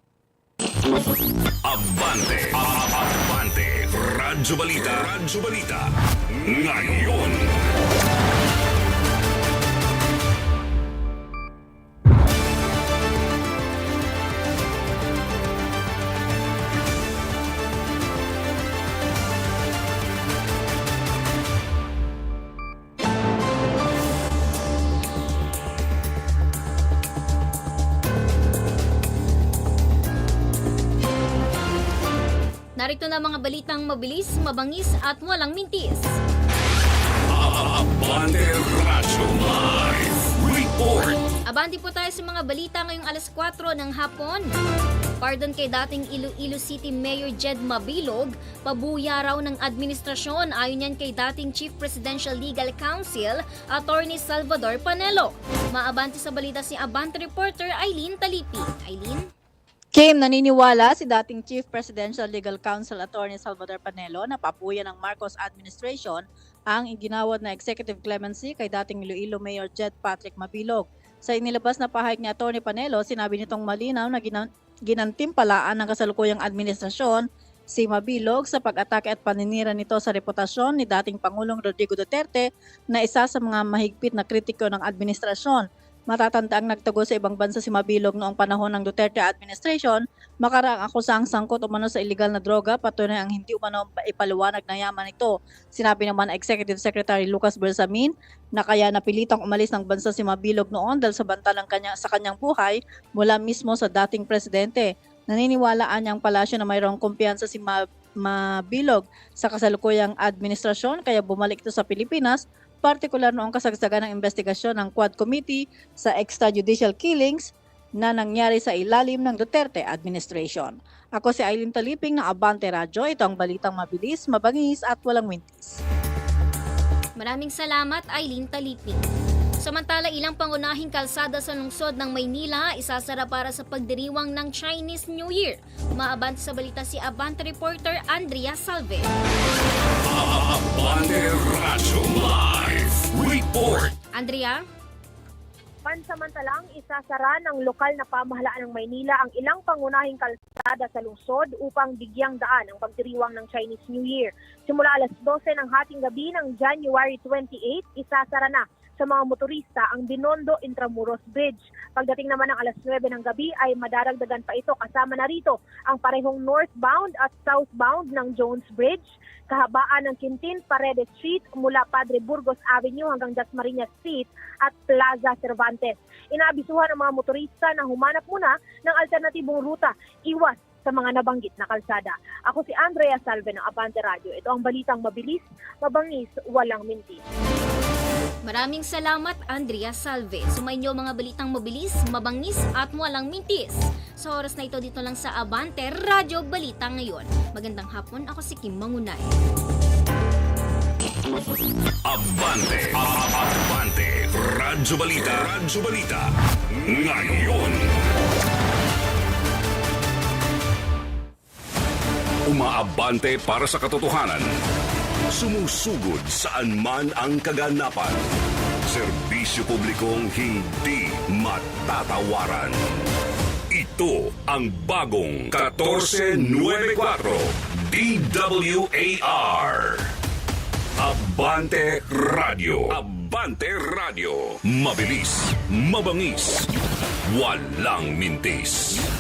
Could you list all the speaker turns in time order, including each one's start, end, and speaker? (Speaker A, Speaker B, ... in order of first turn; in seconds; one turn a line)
Speaker A: 1.6-7.5
Speaker B: 32.8-36.1
Speaker A: 37.3-41.2
Speaker B: 41.5-44.5
Speaker B: 45.2-59.3
Speaker C: 59.9-117.5
Speaker C: 118.0-125.8
Speaker B: 127.2-129.0
Speaker B: 129.6-139.1
Speaker A: 140.1-143.9
Speaker B: 144.1-144.6
Speaker D: 145.8-187.2
Speaker B: 188.4-199.3
Speaker A: 202.1-206.3
Speaker A: 206.8-207.9
Speaker A: 212.5-214.5
Speaker A: 215.3-218.2
Speaker A: 218.9-222.8
Speaker A: 223.7-230.1
Speaker A: 231.0-236.7
Speaker A: 237.3-239.0